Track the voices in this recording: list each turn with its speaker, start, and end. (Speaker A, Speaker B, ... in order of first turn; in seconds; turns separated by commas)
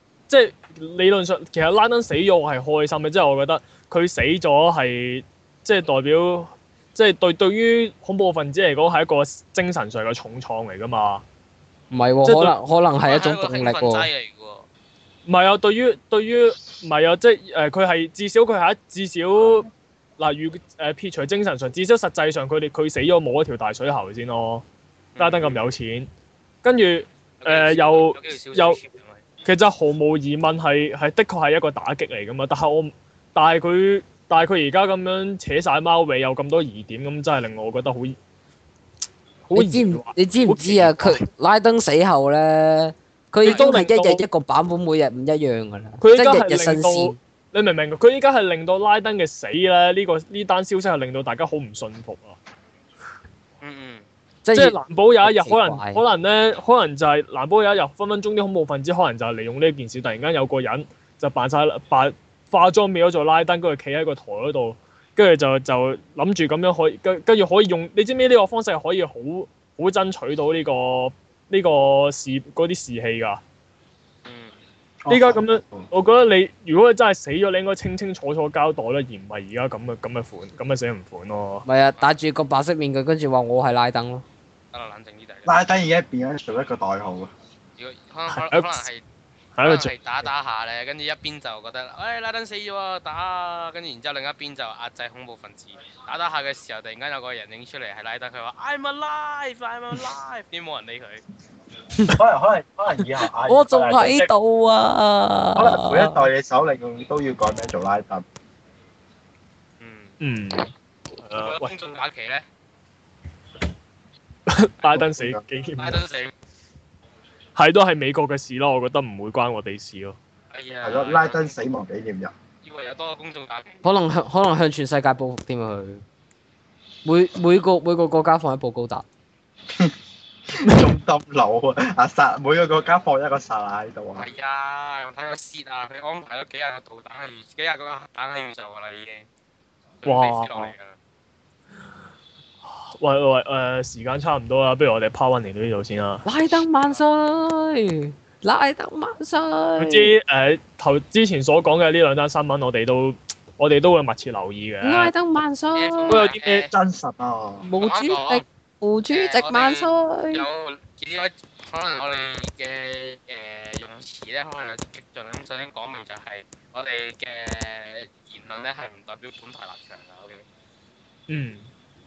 Speaker A: 0.3-11.2, Speaker B: 11.9-14.1, Speaker A: 12.2-12.6, Speaker C: 13.1-14.7, Speaker A: 15.3-24.6, Speaker C: 25.1-25.6, Speaker A: 25.2-26.1, Speaker A: 26.6-28.8, Speaker C: 27.4-29.2, Speaker A: 29.4-38.2, Speaker A: 39.5-41.2, Speaker B: 39.5-47.2, Speaker A: 43.4-44.2, Speaker A: 46.0-52.4, Speaker C: 53.6-54.0, Speaker B: 54.5-56.0, Speaker A: 54.5-73.4, Speaker C: 74.2-74.5, Speaker D: 75.0-75.9, Speaker A: 75.1-81.7, Speaker B: 81.7-84.2, Speaker C: 84.7-85.5, Speaker D: 85.5-87.3, Speaker C: 87.8-89.0, Speaker A: 88.3-88.9, Speaker A: 89.6-89.9, Speaker C: 89.6-101.2, Speaker D: 102.1-104.3, Speaker B: 103.5-106.3, Speaker D: 105.6-108.2, Speaker C: 109.8-110.2, Speaker A: 110.2-110.7, Speaker A: 111.2-111.7, Speaker C: 111.3-112.5, Speaker A: 114.5-116.0, Speaker D: 114.9-115.4, Speaker C: 115.8-116.3, Speaker A: 117.6-120.2, Speaker C: 120.5-121.5, Speaker D: 120.8-122.3, Speaker C: 122.6-123.8, Speaker B: 123.8-126.0, Speaker B: 127.0-129.0, Speaker D: 130.5-134.3, Speaker C: 134.2-139.3, Speaker C: 140.0-140.9, Speaker A: 140.1-140.7, Speaker A: 142.6-146.2, Speaker B: 146.2-150.1, Speaker A: 149.8-155.1, Speaker B: 154.8-156.3, Speaker C: 155.7-156.7, Speaker A: 156.1-156.7, Speaker D: 156.7-157.7, Speaker B: 157.6-160.4, Speaker C: 157.8-158.4, Speaker C: 159.1-170.4, Speaker A: 171.3-171.7